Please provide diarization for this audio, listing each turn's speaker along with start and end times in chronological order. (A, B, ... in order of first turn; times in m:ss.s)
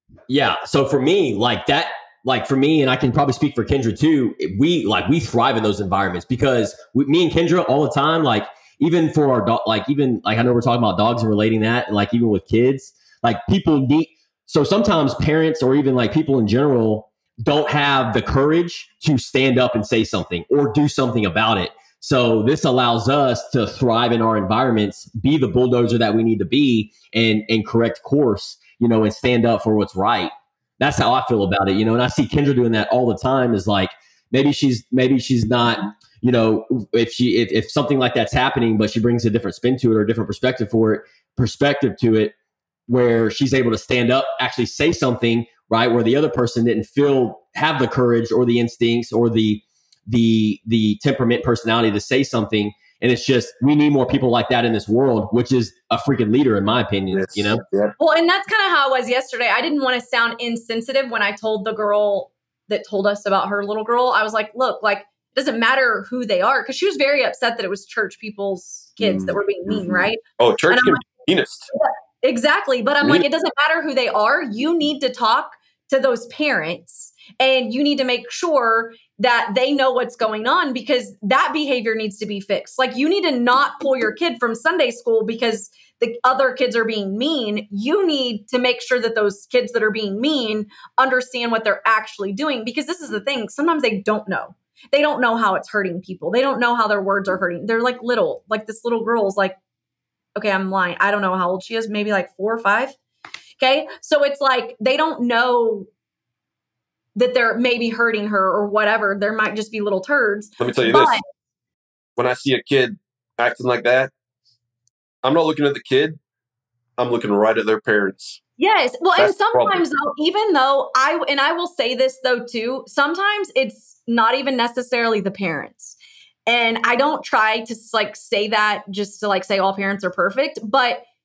0:00.3-0:42.3 A
0:42.9-0:57.6 A
0:57.1-0:57.9 B
0:58.0-1:10.2 C
1:09.0-1:11.7 B
1:10.7-1:11.1 C
1:11.7-1:39.6 C
1:40.4-1:43.0 C
1:43.6-1:45.9 C
1:47.2-1:51.2 C
1:50.6-1:51.2 B
1:52.2-1:54.1 B
1:55.2-1:56.2 B
1:57.0-1:58.4 B
1:58.6-2:11.0 C
1:59.2-1:59.8 B